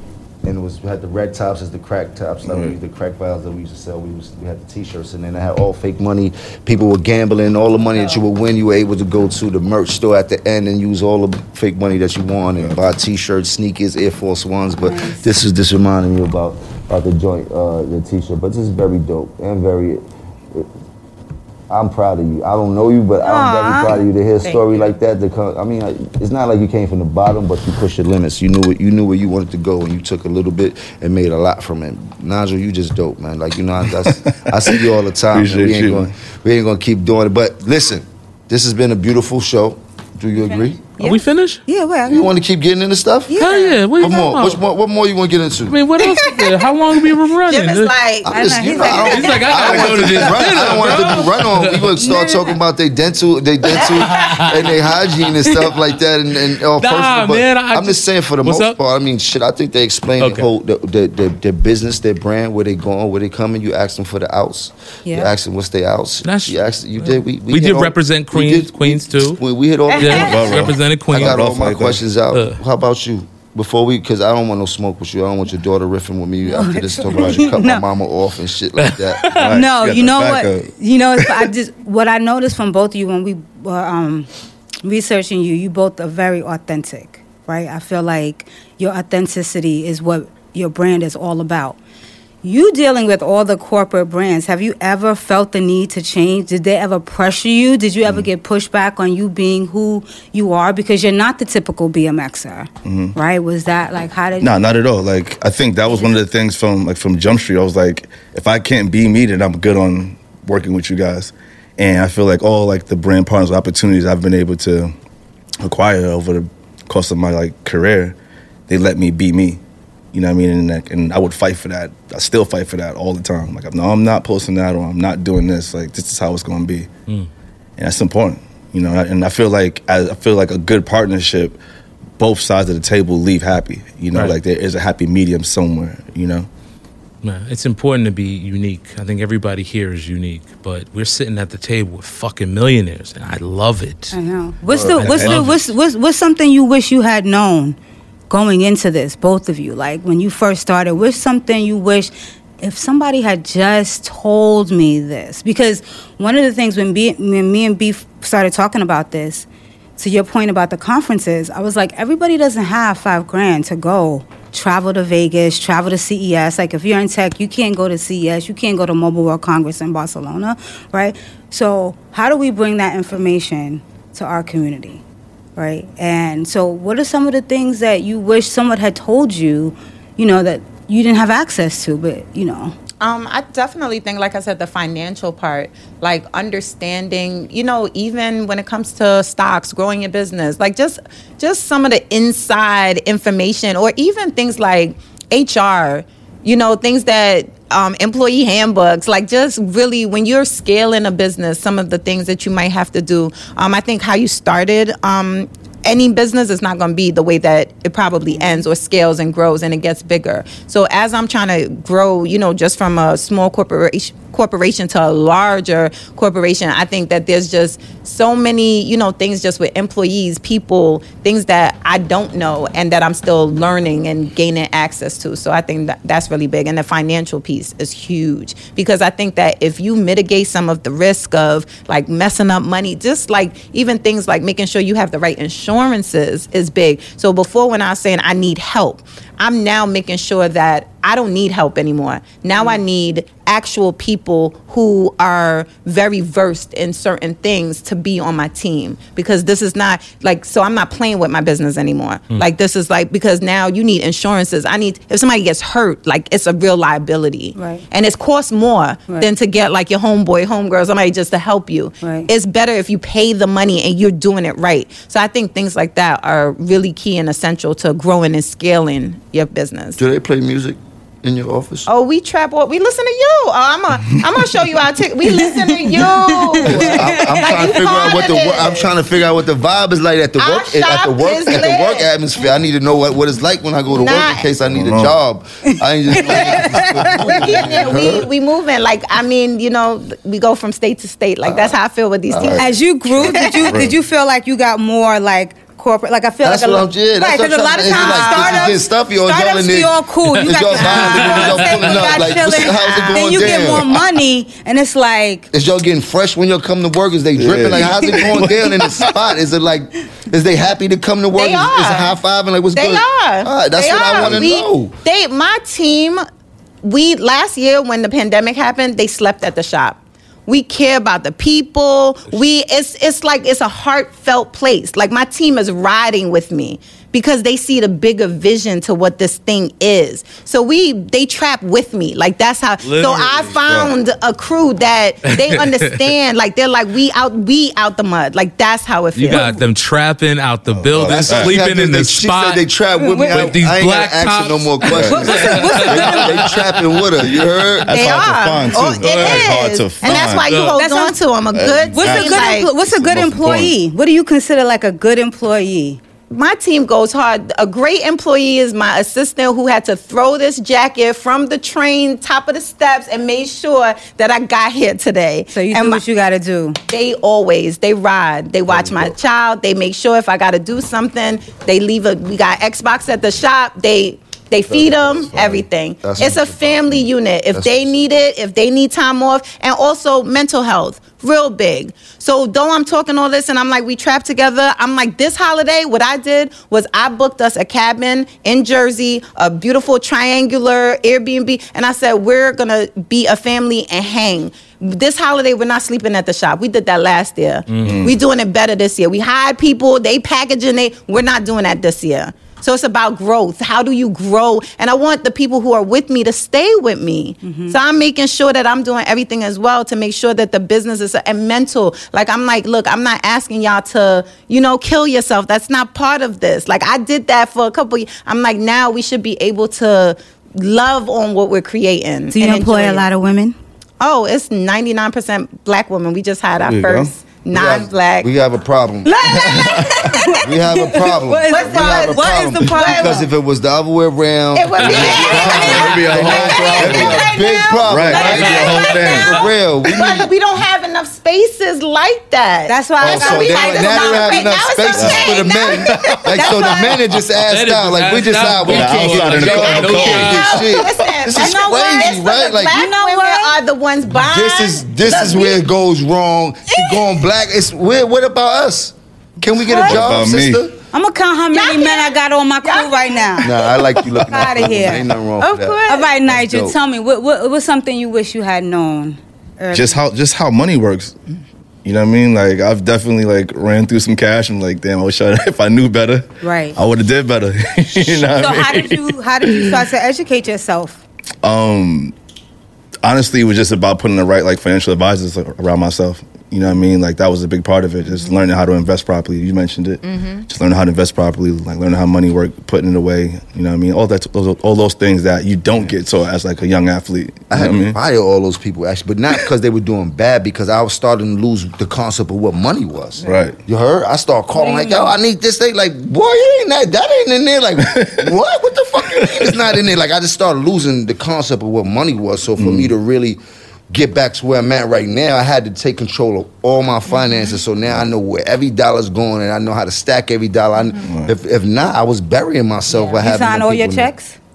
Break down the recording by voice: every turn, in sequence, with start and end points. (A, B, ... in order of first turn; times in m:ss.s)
0:00.4-0:20.7 A
0:02.5-0:02.8 B
0:14.9-0:15.2 C
0:21.7-0:40.8 A
0:23.2-0:24.0 C
0:34.3-0:36.1 B
0:41.0-0:41.6 D
0:41.7-0:42.3 C
0:42.1-0:43.4 A
0:43.3-0:43.9 C
0:43.4-0:44.6 D
0:44.0-0:45.8 A
0:45.7-0:47.9 D
0:46.0-0:46.6 E
0:47.5-0:49.1 E
0:48.2-1:19.2 A
0:48.3-0:49.9 C
0:48.9-0:51.9 D
0:52.0-0:52.6 C
0:53.8-0:54.8 D
0:56.8-0:58.8 D
1:00.2-1:00.5 D
1:05.1-1:05.3 C
1:06.2-1:09.4 D
1:09.9-1:10.3 E
1:10.0-1:11.4 D
1:10.2-1:12.0 B
1:12.3-1:12.6 D
1:16.4-1:17.8 C
1:18.8-1:19.6 D
1:19.3-1:21.5 B
1:19.4-1:24.3 C
1:24.8-1:31.8 C
1:32.4-1:44.5 C
1:42.8-1:43.2 B
1:44.4-1:54.9 B
1:55.6-1:58.2 B
1:58.7-1:59.6 B
2:00.1-2:06.9 B
2:07.8-2:11.6 B
2:12.2-2:16.5 B
2:17.2-2:24.2 D
2:24.1-2:27.8 C
2:24.7-2:25.0 A
2:25.0-2:25.6 D
2:25.0-2:25.6 B
2:28.3-2:55.0 C
2:55.6-3:02.8 C
3:03.0-4:30.0 E
3:28.3-3:28.6 C
4:17.6-4:17.8 C
4:22.0-4:22.3 C
4:30.0-4:31.9 A
4:31.9-4:38.9 E
4:35.4-4:37.8 C
4:36.6-4:48.3 A
4:40.4-4:42.1 E
4:43.9-4:44.5 E
4:44.7-4:45.2 B
4:46.1-4:47.7 C
4:47.3-4:53.8 E
4:51.4-4:51.7 A
4:52.3-4:53.5 A
4:52.5-5:05.5 C
4:53.7-4:54.0 B
4:56.4-5:04.0 A
4:57.7-4:58.8 E
5:00.2-5:02.2 D
5:02.5-5:03.7 E
5:05.5-5:15.0 A
5:07.4-5:09.1 B
5:11.4-5:12.2 E
5:12.7-5:16.2 E
5:14.2-5:14.4 B
5:16.8-5:39.4 E
5:32.8-5:33.6 D
5:33.7-5:33.9 B
5:35.2-5:36.1 D
5:39.2-5:42.6 D
5:40.7-5:41.6 B
5:41.1-5:48.0 A
5:43.0-5:43.5 C
5:43.2-5:47.0 D
5:44.9-5:46.5 B
5:44.9-5:46.4 C
5:47.1-5:50.6 B
5:47.9-5:52.7 E
5:50.0-5:50.8 D
5:50.7-5:51.2 C
5:51.5-5:53.8 B
5:51.9-5:56.0 C
5:56.3-6:06.0 E
6:05.5-6:06.8 C
6:06.9-7:03.1 E
6:08.7-6:09.2 A
6:14.7-6:18.1 A
6:37.7-6:38.1 D
6:37.8-6:38.2 B
6:47.4-6:47.8 C
7:02.3-7:03.6 C
7:04.0-7:08.3 E
7:06.6-7:07.1 B
7:07.5-7:09.2 A
7:09.0-7:10.4 E
7:09.2-7:10.1 B
7:10.0-7:13.3 C
7:10.4-7:20.3 A
7:11.5-7:13.2 E
7:14.5-7:27.0 E
7:14.8-7:15.2 D
7:14.8-7:17.3 B
7:15.2-7:17.6 C
7:17.8-7:19.4 B
7:18.1-7:19.2 D
7:22.7-7:24.6 C
7:23.0-7:32.8 A
7:24.9-7:26.2 B
7:26.3-7:27.0 C
7:27.4-7:30.6 D
7:28.5-7:31.3 B
7:29.7-7:35.6 E
7:31.3-7:32.1 C
7:32.7-7:33.6 C
7:34.2-7:40.8 A
7:36.7-7:37.2 E
7:39.6-7:40.3 C
7:39.7-7:40.7 B
7:40.9-7:43.6 C
7:41.5-7:46.1 E
7:43.4-7:46.8 A
7:44.3-7:45.1 C
7:45.9-7:50.0 C
7:49.7-7:51.2 B
7:51.8-7:59.9 B
7:56.4-7:56.8 C
7:58.2-8:01.0 C
8:01.4-8:02.2 B
8:03.0-8:18.0 B
8:08.1-8:08.3 E
8:10.0-8:10.5 E
8:17.5-8:33.4 A
8:23.2-8:23.6 B
8:24.6-8:25.1 C
8:27.9-8:28.3 B
8:29.1-8:29.6 B
8:32.6-8:32.9 B
8:33.9-8:44.1 A
8:41.0-8:41.3 B
8:42.9-8:44.4 C